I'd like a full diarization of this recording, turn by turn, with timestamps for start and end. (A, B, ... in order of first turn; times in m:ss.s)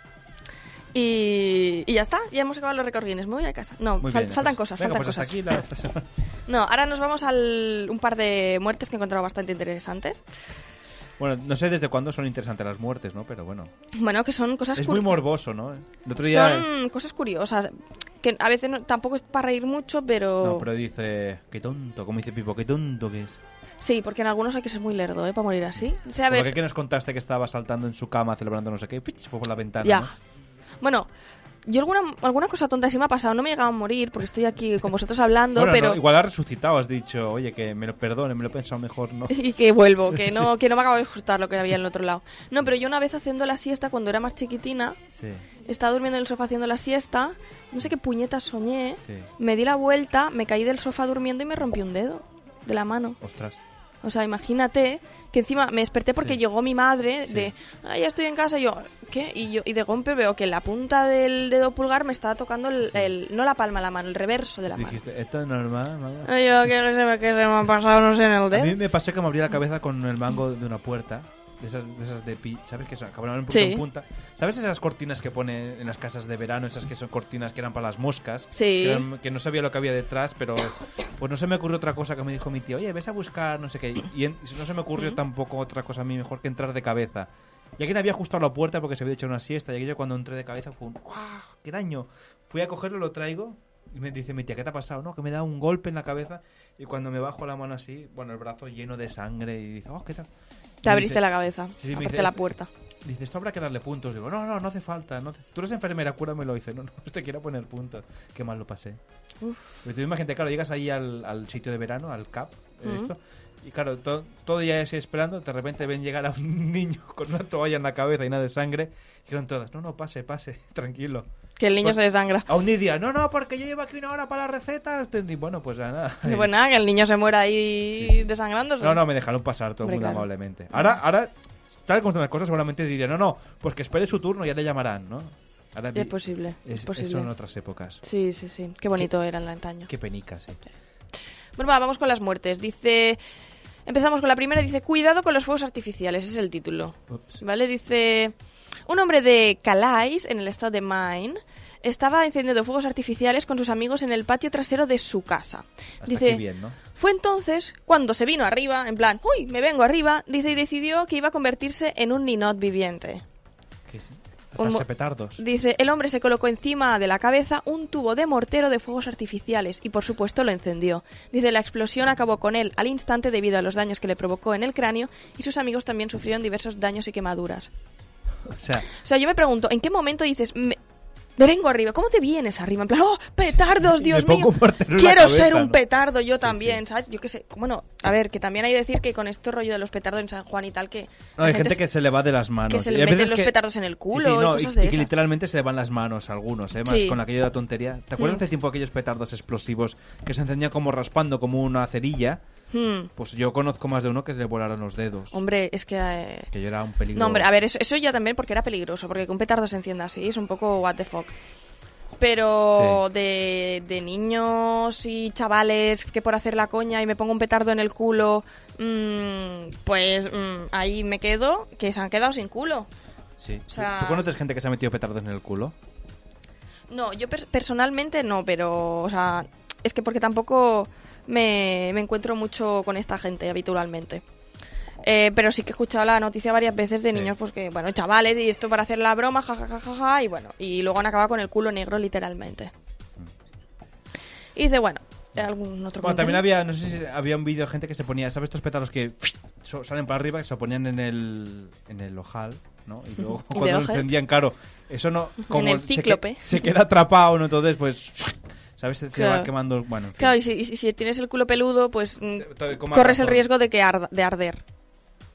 0:00.9-0:05.5 A
0:04.0-0:06.1 B
0:06.5-0:10.2 A
0:11.2-0:13.7 B
0:13.9-0:15.2 A
0:14.8-0:16.7 B
0:16.2-0:20.7 A
0:20.4-0:23.4 B
0:23.8-0:26.5 A
0:25.8-0:30.1 B
0:29.8-0:30.1 A
0:30.8-0:31.1 A
0:31.7-0:36.0 A
0:35.6-0:39.4 B
0:39.3-0:45.0 A
0:40.1-0:40.5 B
0:45.2-0:45.4 B
0:45.6-0:53.2 A
0:53.2-0:53.6 B
0:54.0-1:05.0 A
0:56.2-0:56.4 B
0:57.3-0:57.5 B
1:02.8-1:03.1 B
1:04.7-1:06.3 B
1:06.2-1:08.8 A
1:08.5-1:40.3 B
1:13.5-1:13.8 A
1:18.5-1:19.1 A
1:40.8-1:41.2 B
1:40.8-1:42.7 A
1:41.8-1:42.4 B
1:43.0-1:49.0 B
1:49.4-1:49.7 A
1:49.8-2:01.3 B
1:52.8-1:53.1 A
2:01.6-2:02.5 A
2:01.8-2:06.5 B
2:06.2-2:09.0 A
2:08.0-2:11.3 B
2:09.8-2:11.0 A
2:11.9-2:18.0 B
2:16.0-2:17.3 A
2:18.0-2:19.9 A
2:19.9-2:20.6 B
2:21.6-2:23.2 A
2:23.9-2:28.3 A
2:28.9-2:43.2 A
2:36.0-2:36.8 B
2:43.9-2:45.4 B
2:44.6-2:44.9 A
2:45.4-2:57.7 A
2:58.6-2:58.9 B
2:58.9-3:00.8 A
3:01.4-3:11.8 A
3:03.8-3:05.8 B
3:06.4-3:06.8 B
3:11.4-3:13.6 B
3:12.7-3:15.1 A
3:14.1-3:22.4 B
3:16.8-3:17.2 A
3:18.2-3:18.4 A
3:22.7-3:23.1 A
3:23.2-3:25.4 B
3:25.3-3:26.5 A
3:26.5-3:27.5 B
3:27.2-3:31.4 A
3:32.2-3:42.9 A
3:32.7-3:33.0 B
3:43.4-3:45.7 B
3:43.7-3:44.3 A
3:46.9-3:54.2 A
3:55.0-4:02.7 A
4:04.6-4:06.4 A
4:06.0-4:20.4 B
4:13.2-4:14.1 A
4:15.4-4:16.6 A
4:19.1-4:19.5 A
4:20.2-4:24.6 A
4:22.3-4:23.5 B